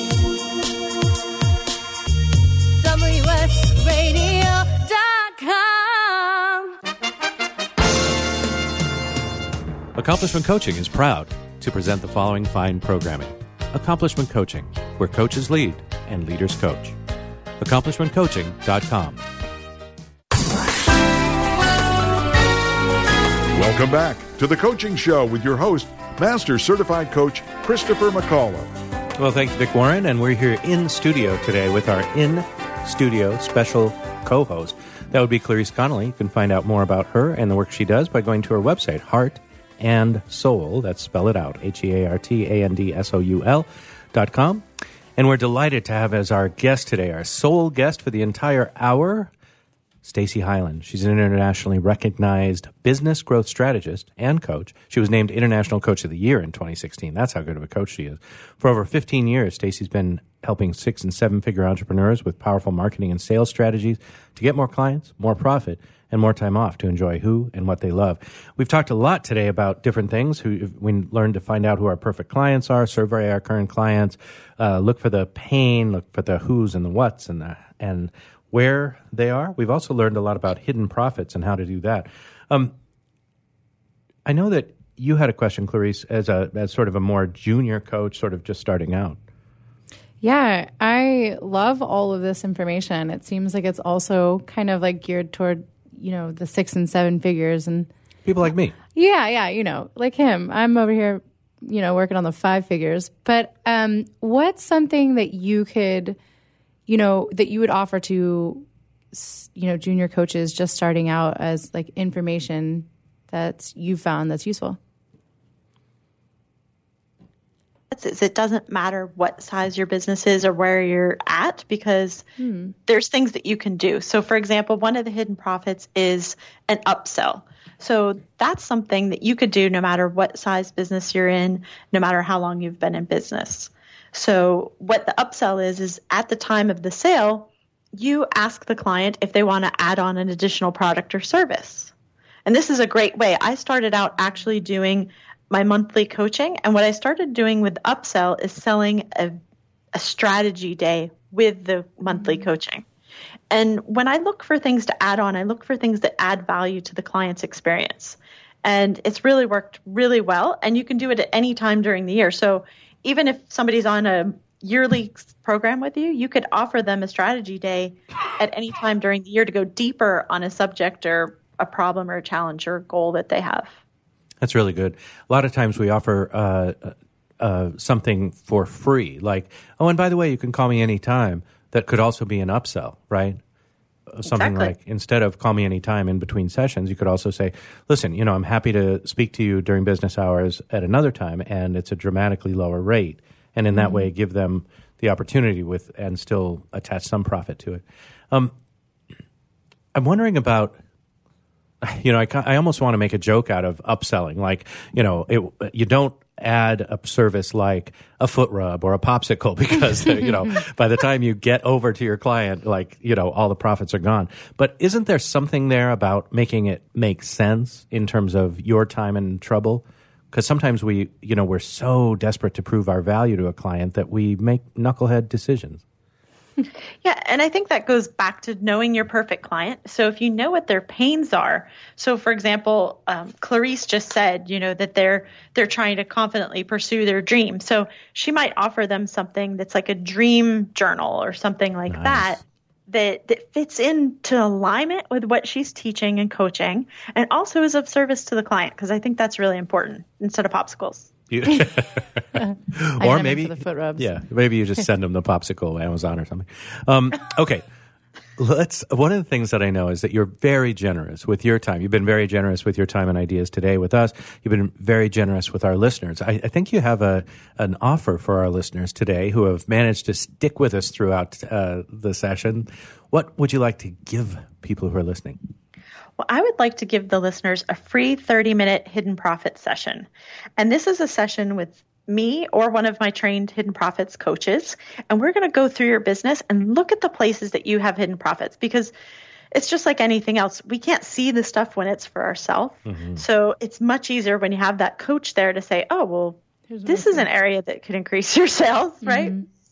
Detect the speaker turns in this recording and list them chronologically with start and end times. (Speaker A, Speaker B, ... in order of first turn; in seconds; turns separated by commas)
Speaker A: 2.8-6.5, Speaker B: 10.0-17.0, Speaker B: 17.6-19.2, Speaker C: 23.5-28.7, Speaker B: 29.2-44.6, Speaker B: 45.2-49.3, Speaker B: 50.0-82.7, Speaker B: 84.3-89.2, Speaker D: 90.2-97.9, Speaker B: 98.2-98.8, Speaker D: 98.9-106.2, Speaker D: 106.9-114.8, Speaker E: 117.9-122.2, Speaker D: 122.4-122.8, Speaker E: 122.9-141.9, Speaker E: 142.5-149.3, Speaker E: 149.9-152.8, Speaker E: 153.5-173.7, Speaker B: 174.4-183.4, Speaker B: 184.1-198.5, Speaker E: 184.3-184.7, Speaker D: 193.8-194.1, Speaker B: 199.9-200.8, Speaker B: 201.8-225.8, Speaker E: 227.0-251.1, Speaker B: 241.9-242.4, Speaker B: 251.3-257.6, Speaker D: 253.0-254.1, Speaker B: 258.4-275.4, Speaker E: 276.2-288.9, Speaker E: 289.5-299.4, Speaker B: 292.9-293.2, Speaker D: 296.7-297.3, Speaker D: 299.0-299.4